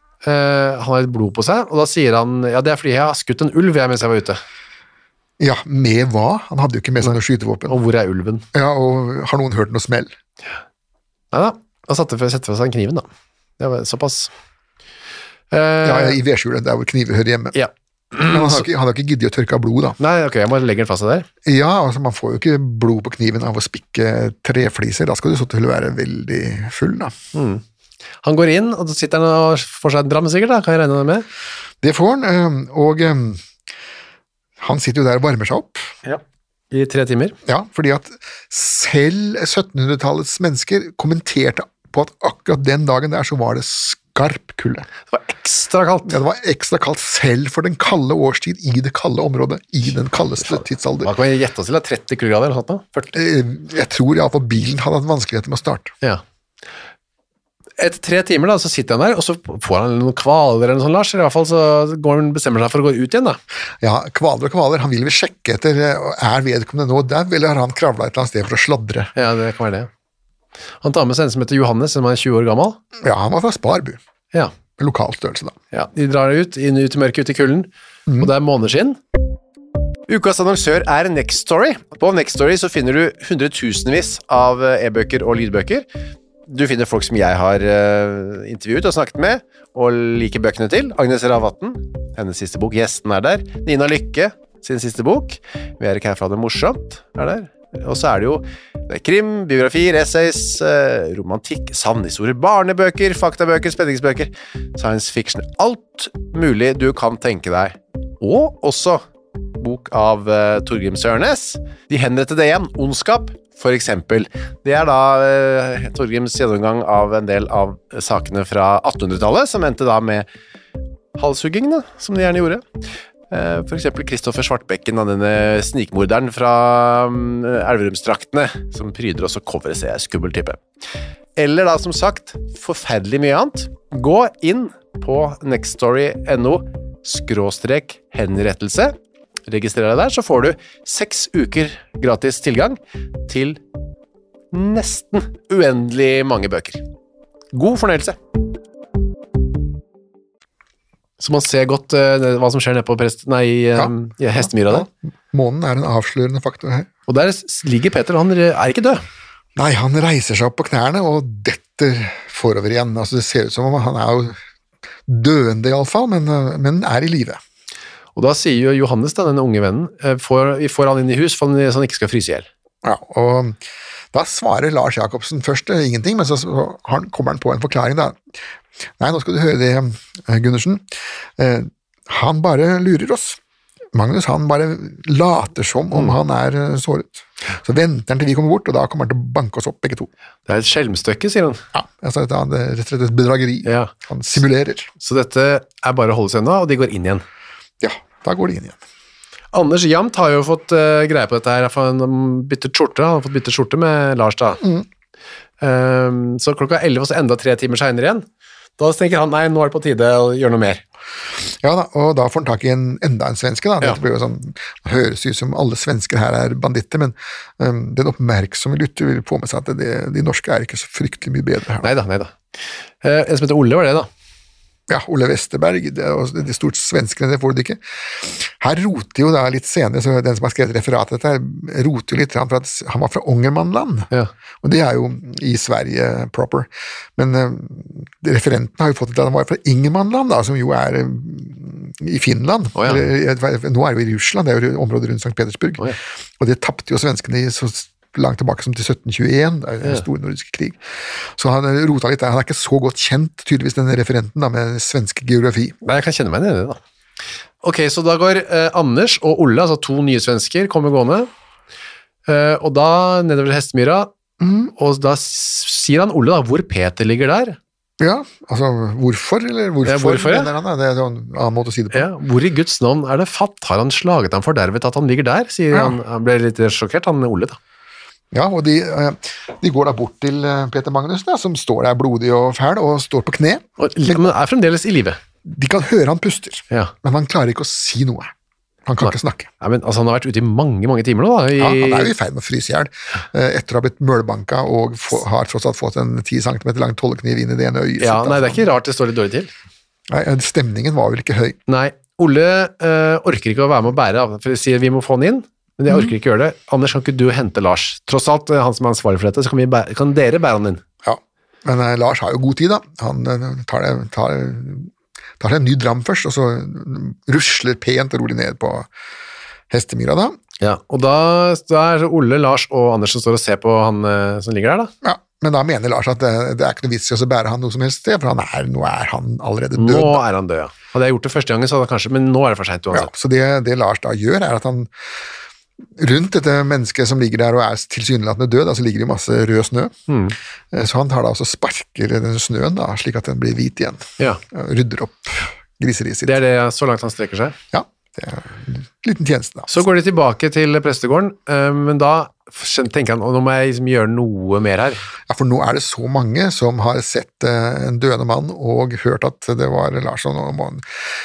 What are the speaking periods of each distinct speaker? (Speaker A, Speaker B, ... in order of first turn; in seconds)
Speaker A: 0.2-4.4, 7.7-8.4, 11.3-13.1, 13.6-14.3, 15.5-16.2, 17.5-18.6, 20.0-21.3, 27.3-27.6, 28.2-31.2, 36.0-37.4, 45.1-46.2, 50.4-53.1, 57.8-63.4, 69.2-69.9, 70.8-72.8, 75.7-79.0, 80.1-85.8, 86.5-109.0, 109.6-120.3, 121.2-122.6, 123.3-130.6, 131.4-138.9, 139.5-143.6, 144.5-146.8, 147.5-148.2, 151.2-154.9, 157.1-159.0, 168.2-172.5, 190.5-191.6, 193.6-193.9, 195.0-197.2, 199.5-204.6, 205.6-208.2, 208.8-210.8, 221.8-222.4, 223.0-224.1, 242.8-243.1, 255.8-256.8, 257.6-261.3, 262.3-264.1, 264.8-267.6, 269.8-270.5, 271.9-277.6, 283.8-285.2, 289.0-292.1, 298.0-299.5, 301.7-310.8, 320.6-324.9, 329.8-333.1, 340.1-340.4, 346.2-347.6, 349.7-355.0
Speaker B: 5.4-7.8, 8.5-10.1, 15.8-17.6, 18.3-20.0, 21.4-27.1, 31.8-33.4, 34.6-35.9, 37.5-44.9, 46.0-51.1, 53.1-55.9, 63.8-69.1, 73.0-74.0, 74.8-75.5, 154.6-156.9, 159.6-164.4, 165.1-167.4, 172.8-173.6, 174.1-178.2, 179.0-180.8, 181.4-183.4, 183.9-190.1, 191.7-194.9, 197.8-198.8, 211.5-221.9, 224.9-234.1, 234.6-255.8, 264.4-264.7, 268.0-272.1, 278.3-284.3, 285.4-288.3, 288.9-289.5, 291.6-298.6, 300.1-301.6, 311.0-318.9, 319.7-320.4, 325.0-330.2, 332.9-334.9, 336.0-339.9, 340.7-346.4, 347.7-349.7, 355.3-360.8